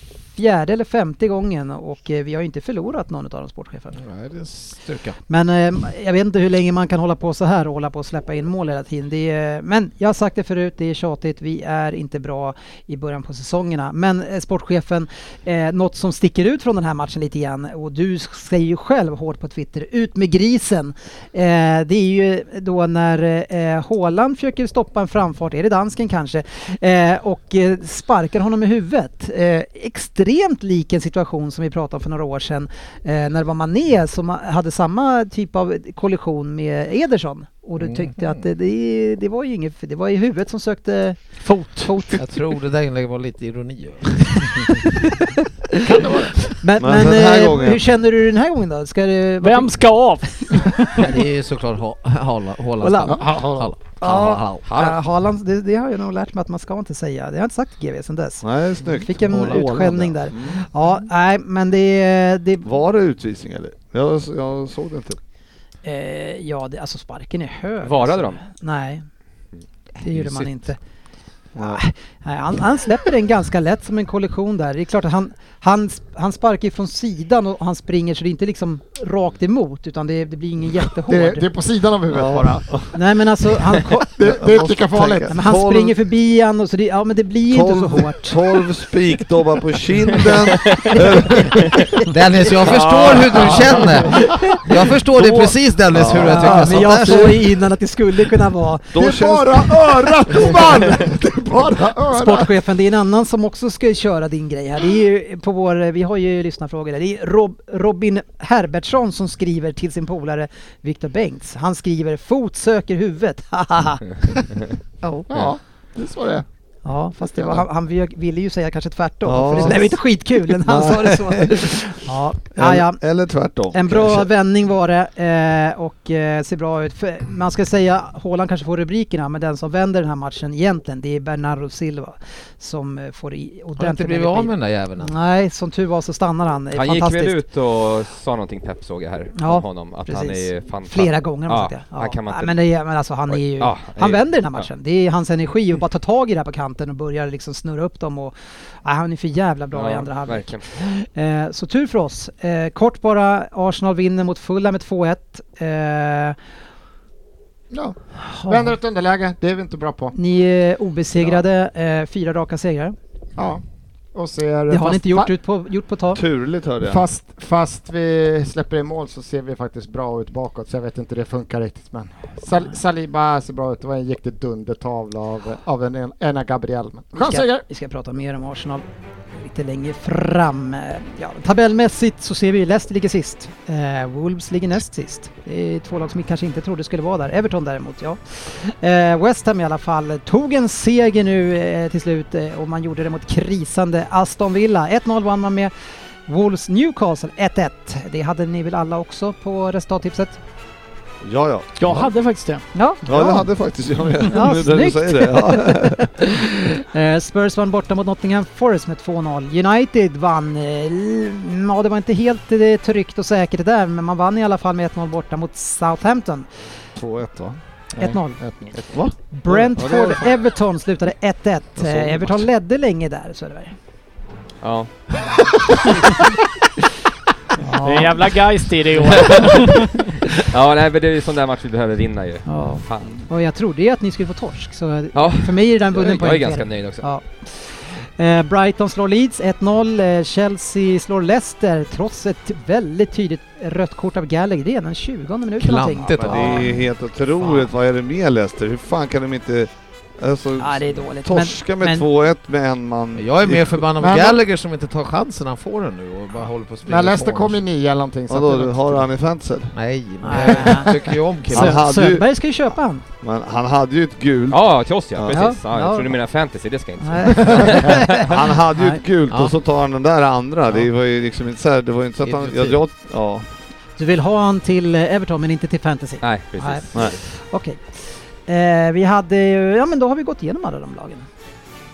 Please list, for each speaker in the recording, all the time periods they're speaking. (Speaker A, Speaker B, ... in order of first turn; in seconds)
Speaker A: 0.3-4.0, 5.3-42.2, 46.6-49.7, 52.8-53.2, 54.0-62.7, 65.8-69.0, 70.0-70.8, 71.6-81.4, 82.9-84.2, 85.3-88.4, 94.1-94.4, 96.2-99.2, 102.1-114.6, 116.8-123.0, 123.7-137.4, 139.3-156.3, 158.2-158.8, 160.1-162.9, 164.7-166.2, 177.2-178.8, 179.4-195.7, 196.2-200.4, 202.7-203.5, 204.2-216.5, 218.0-218.4, 219.3-223.7, 227.6-228.3, 232.4-246.8, 250.6-252.1, 260.2-261.0, 261.5-263.0, 265.3-266.1, 267.0-269.0, 274.0-281.3
Speaker B: 3.9-5.2, 37.8-38.4, 42.1-45.1, 51.0-54.6, 59.3-59.6, 70.1-70.7, 92.1-97.5, 133.8-135.1, 245.6-246.8, 253.2-257.6, 259.7-261.8, 272.2-272.8
Speaker C: 41.5-42.0, 49.4-51.0, 201.8-202.6, 227.8-229.9
Speaker D: 45.8-46.4, 53.1-53.7, 81.1-82.7, 84.1-85.4, 99.0-102.5, 115.0-116.4, 117.2-117.6, 157.7-158.0, 158.5-160.2, 163.4-163.6, 164.1-165.3, 166.8-177.6, 218.0-218.8, 219.6-220.1, 254.0-254.4, 256.9-259.1
Speaker E: 46.8-47.8, 58.4-60.6, 62.6-65.2, 71.5-71.8, 82.1-83.0, 83.5-86.0, 87.5-91.7, 92.6-94.1, 95.0-97.2, 98.9-101.0, 119.2-119.9, 120.6-121.8, 122.5-124.3, 166.1-167.1, 201.2-202.1, 203.0-206.1, 217.0-217.6, 218.7-219.1, 219.8-220.2, 221.8-222.4, 246.3-253.8, 258.3-259.7, 260.4-260.8, 261.4-262.3, 263.2-264.6, 265.1-265.4, 267.9-273.4
Speaker F: 54.6-55.0, 67.8-68.4, 136.7-142.6, 143.3-144.7, 149.7-150.6, 224.6-224.9, 229.0-233.3, 235.1-237.1, 264.5-268.0, 276.2-277.2